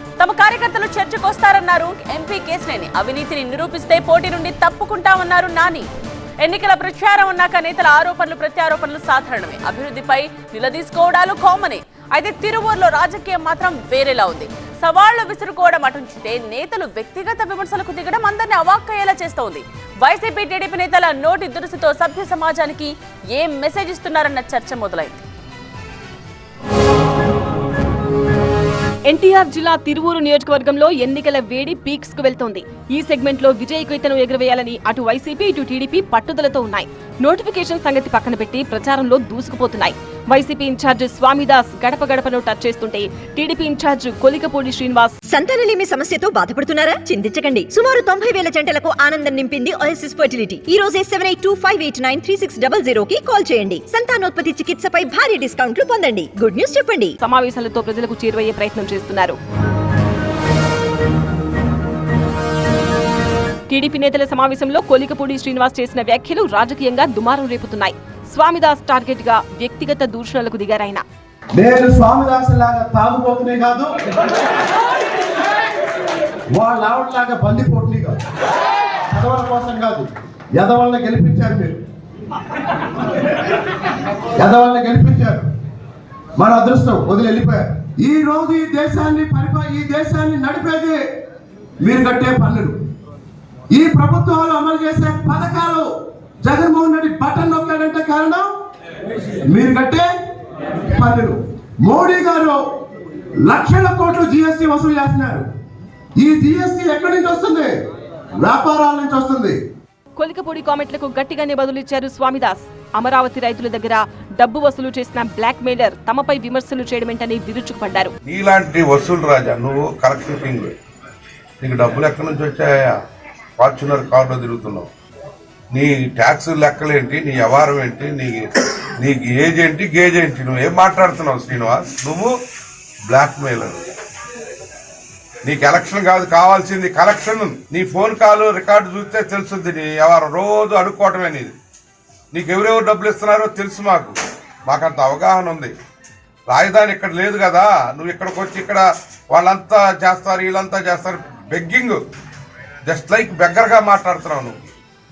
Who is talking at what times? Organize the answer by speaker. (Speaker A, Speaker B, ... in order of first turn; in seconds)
Speaker A: 0.2-5.9, 6.4-25.2
Speaker B: 29.1-45.2, 57.2-59.4, 63.7-71.0, 110.2-118.1
Speaker C: 45.3-57.1
Speaker D: 71.6-73.9, 76.5-78.2, 79.1-81.8, 84.4-85.5, 86.4-91.0, 91.8-92.8, 93.7-95.9, 96.4-98.5, 99.5-100.1, 100.9-102.6, 103.5-105.5, 106.2-107.7, 108.4-109.6
Speaker E: 118.3-120.7, 121.6-123.0, 123.6-124.9, 125.7-132.3, 133.1-133.8, 135.4-141.6, 142.3-145.7, 146.5-152.0, 152.9-154.6